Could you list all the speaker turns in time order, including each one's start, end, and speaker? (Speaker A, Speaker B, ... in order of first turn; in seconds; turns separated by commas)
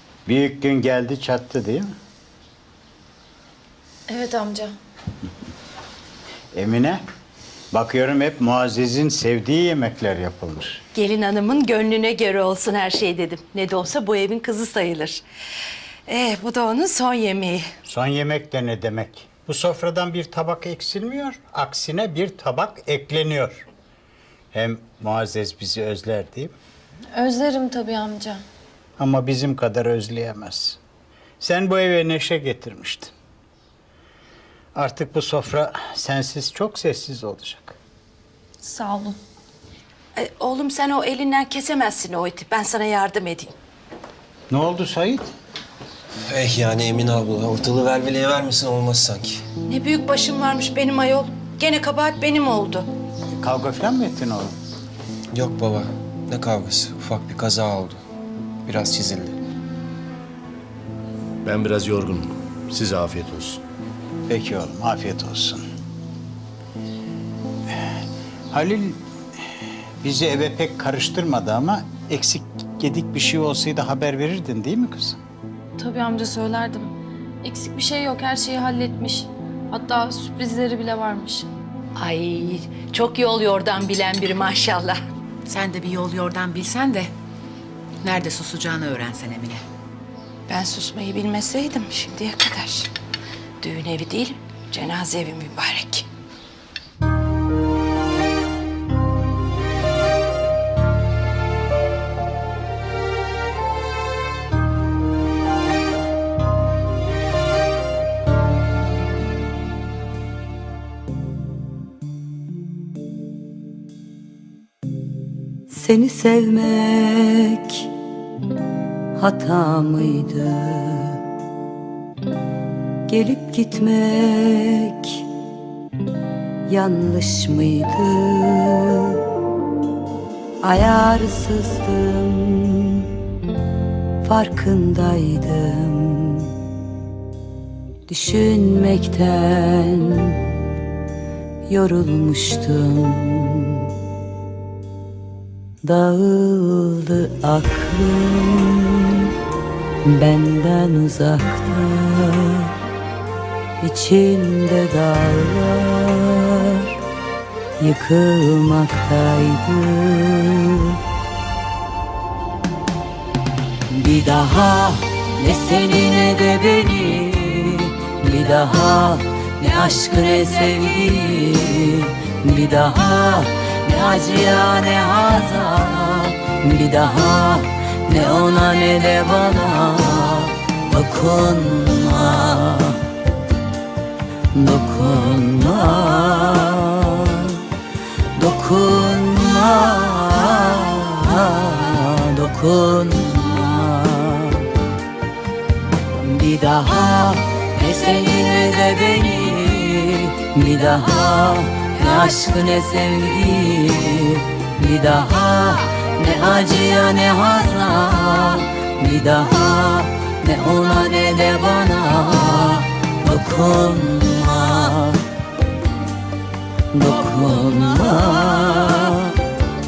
Speaker A: 0.2-1.9, Speaker B: 4.1-4.7, Speaker A: 6.5-7.0, Speaker A: 7.7-10.8, Speaker C: 10.9-15.2, Speaker C: 16.1-17.7, Speaker A: 17.9-23.7, Speaker A: 24.5-26.5, Speaker B: 27.1-28.4, Speaker A: 29.0-30.8, Speaker A: 31.4-33.1, Speaker A: 34.8-37.8, Speaker B: 38.6-39.2, Speaker C: 40.2-43.5, Speaker A: 44.5-45.2, Speaker D: 46.3-49.4, Speaker C: 49.7-52.9, Speaker A: 53.4-54.5, Speaker D: 55.3-58.0, Speaker D: 58.7-59.4, Speaker E: 61.5-63.6, Speaker A: 64.3-65.6, Speaker A: 68.5-69.0, Speaker A: 70.0-75.2, Speaker B: 75.8-81.5, Speaker C: 82.0-85.0, Speaker F: 85.5-87.1, Speaker F: 88.0-89.6, Speaker C: 90.5-92.9, Speaker C: 93.6-96.1, Speaker G: 115.7-117.9, Speaker G: 119.2-121.2, Speaker G: 123.1-125.3, Speaker G: 126.7-129.2, Speaker G: 130.6-133.1, Speaker G: 134.2-136.5, Speaker G: 138.1-140.5, Speaker G: 141.7-143.9, Speaker G: 145.8-149.3, Speaker G: 150.0-152.7, Speaker G: 153.8-156.9, Speaker G: 157.8-161.0, Speaker G: 163.9-183.0, Speaker G: 184.5-187.7, Speaker G: 188.3-194.7, Speaker G: 196.1-215.2, Speaker G: 216.9-219.4